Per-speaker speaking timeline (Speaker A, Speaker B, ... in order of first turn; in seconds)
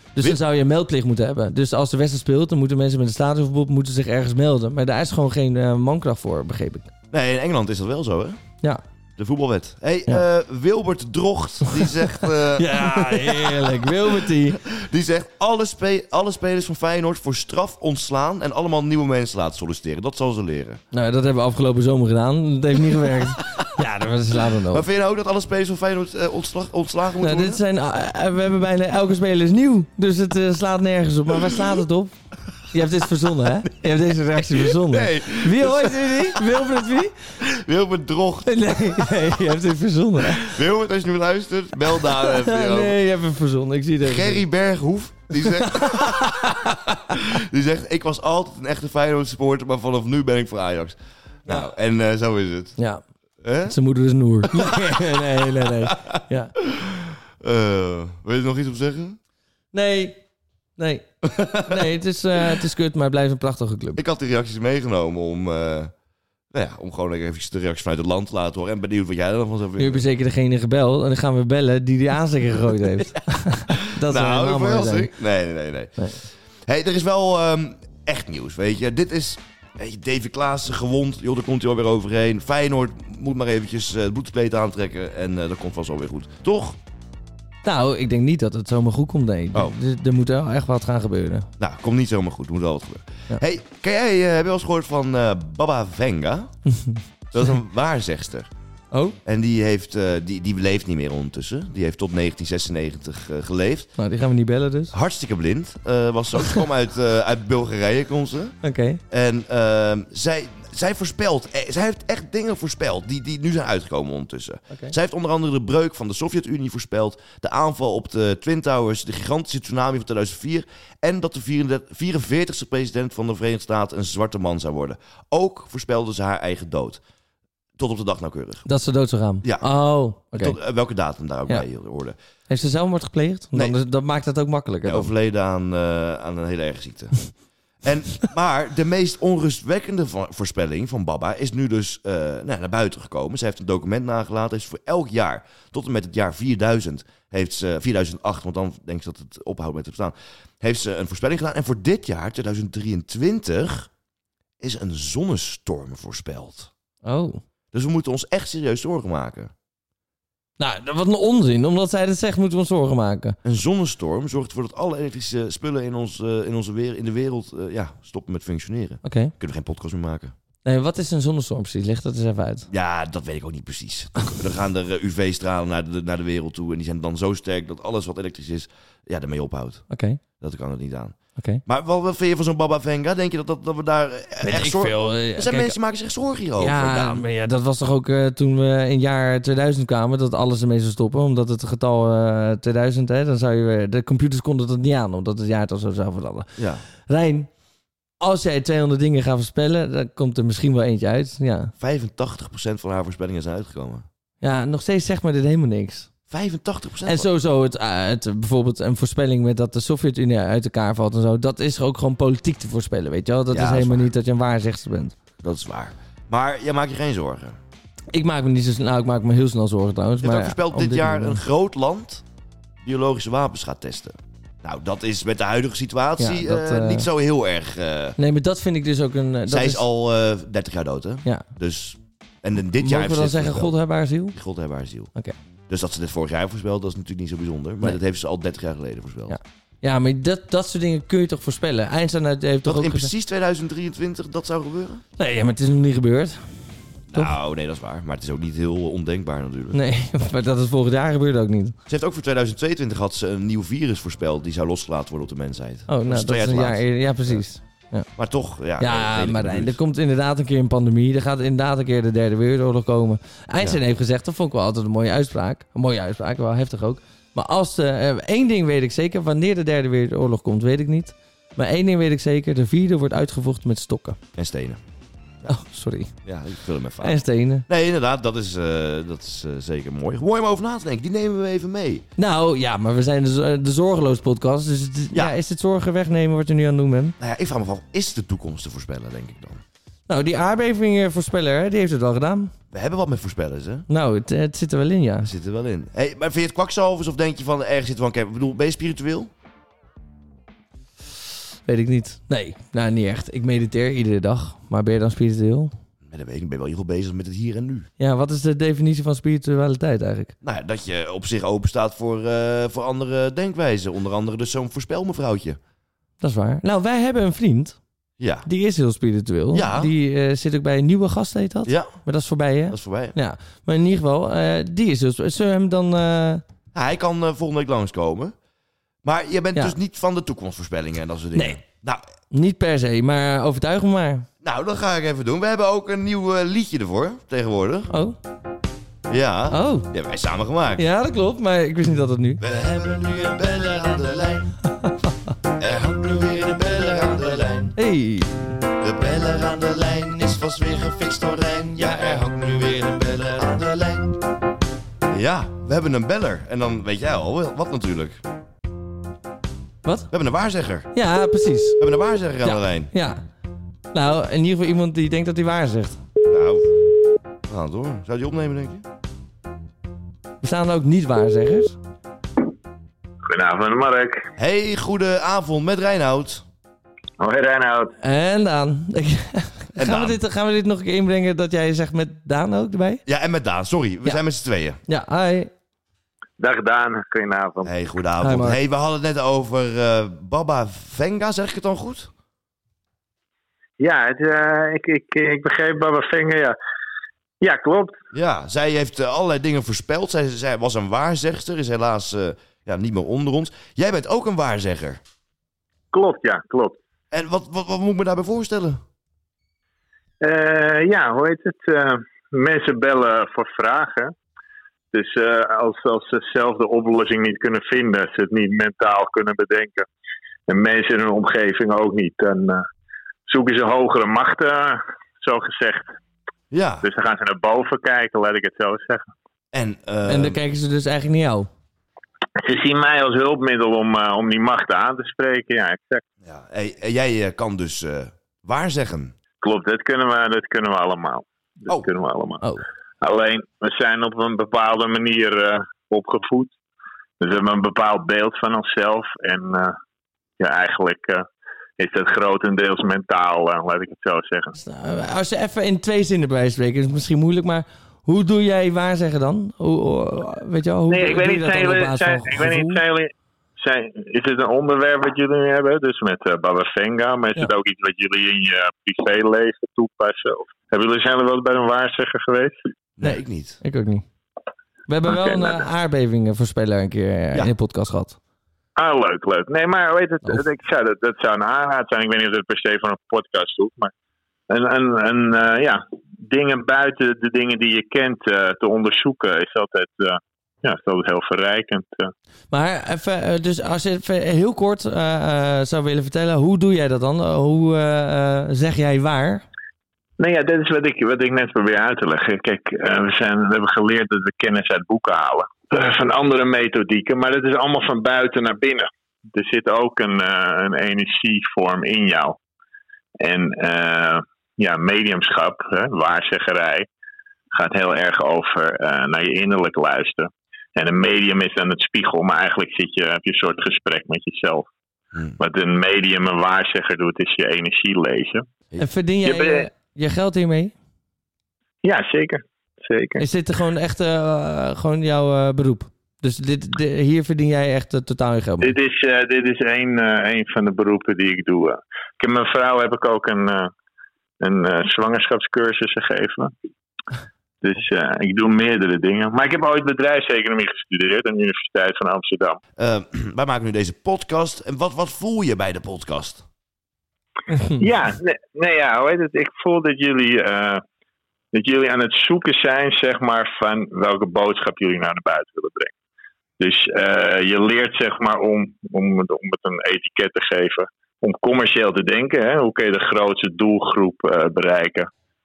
Speaker A: 0.2-6.9, 11.7-14.6, 20.9-24.9, 27.2-32.1, 32.7-37.3, 38.5-40.6, 42.0-44.4, 45.4-46.7, 53.7-56.5, 59.7-60.2, 60.8-61.1, 61.6-64.0, 69.8-75.1, 87.6-91.5, 96.7-97.0, 98.9-99.2, 104.0-104.9, 108.6-109.0, 128.7-130.6, 132.5-135.1, 157.0-157.4, 160.6-163.4, 169.0-169.3, 170.7-172.7, 179.9-180.2, 181.4-181.6, 184.4-185.8, 186.6-197.5, 198.2-201.7, 204.4-206.1, 207.1-215.2, 218.1-221.4, 226.2-227.1, 228.2-229.8, 232.8-234.4, 239.3-243.1, 245.2-246.4, 249.7-251.8, 255.9-258.1, 258.8-274.2, 275.5-276.1, 277.0-277.7, 282.2-287.2, 290.1-292.5, 293.9-295.3, 301.7-305.7, 308.0-310.3, 316.2-317.8, 318.4-326.4, 331.4-331.6, 332.3-334.3, 337.9-338.2, 339.5-339.9, 340.8-342.4, 347.8-348.5, 360.9-361.8, 362.4-363.2, 363.9-366.0, 370.4-371.8, 378.0-383.0, 384.9-385.5, 388.2-388.6, 430.1-431.5, 454.6-462.8, 473.0-474.1, 474.9-478.2, 492.5-499.4, 528.8-530.7, 533.2-538.8, 557.5-557.8
Speaker B: 7.1-8.4, 9.2-20.8, 22.9-23.6, 24.5-27.6, 34.3-36.6, 37.4-39.2, 40.2-43.0, 44.0-52.7, 53.4-53.8, 54.5-59.2, 61.2-61.9, 64.0-65.9, 66.5-70.0, 73.7-86.8, 91.6-96.5, 97.3-98.5, 99.2-103.9, 104.9-108.6, 109.1-127.0, 127.8-128.7, 130.3-132.2, 134.8-137.2, 137.8-153.9, 154.6-156.7, 157.7-159.5, 163.4-170.3, 172.7-179.8, 180.4-187.2, 196.6-196.8, 201.8-204.1, 206.3-207.3, 213.5-214.1, 215.4-217.6, 220.2-222.2, 222.8-228.2, 229.5-233.7, 234.3-235.1, 235.7-239.4, 242.6-245.0, 247.1-249.8, 251.9-257.4, 258.2-259.8, 274.4-274.8, 276.2-282.1, 287.2-289.6, 292.7-293.9, 295.2-299.3, 306.0-307.9, 310.4-315.6, 318.2-318.5, 319.5-319.9, 321.7-321.9, 322.7-323.1, 326.7-328.4, 329.0-332.0, 334.4-337.9, 339.1-340.8, 342.4-344.5, 345.6-347.8, 348.8-354.2, 355.1-358.2, 360.1-360.9, 361.8-362.9, 366.3-366.7, 367.5-368.9, 374.4-376.4, 379.8-380.2, 383.1-384.8, 387.6-392.1, 398.1-405.0, 407.1-408.8, 426.5-426.9, 429.5-430.4, 436.2-439.1, 473.0-473.6, 552.8-556.4
Speaker C: 373.3-374.3, 377.2-377.9, 386.4-387.7, 393.8-396.6, 397.4-398.0, 405.9-406.8, 410.2-414.1, 414.9-419.9, 420.5-422.6, 423.3-425.9, 426.8-429.1, 432.4-436.0, 439.4-442.4, 443.0-446.5, 447.2-449.8, 450.4-451.2, 451.8-454.6, 460.9-472.6, 478.8-483.9, 484.5-492.1, 500.2-512.4, 513.2-516.9, 517.5-524.7, 525.4-528.5, 529.2-529.7, 531.8-533.2, 538.6-543.7, 544.4-546.5, 547.6-552.6, 557.8-560.8, 561.5-565.9, 566.6-575.1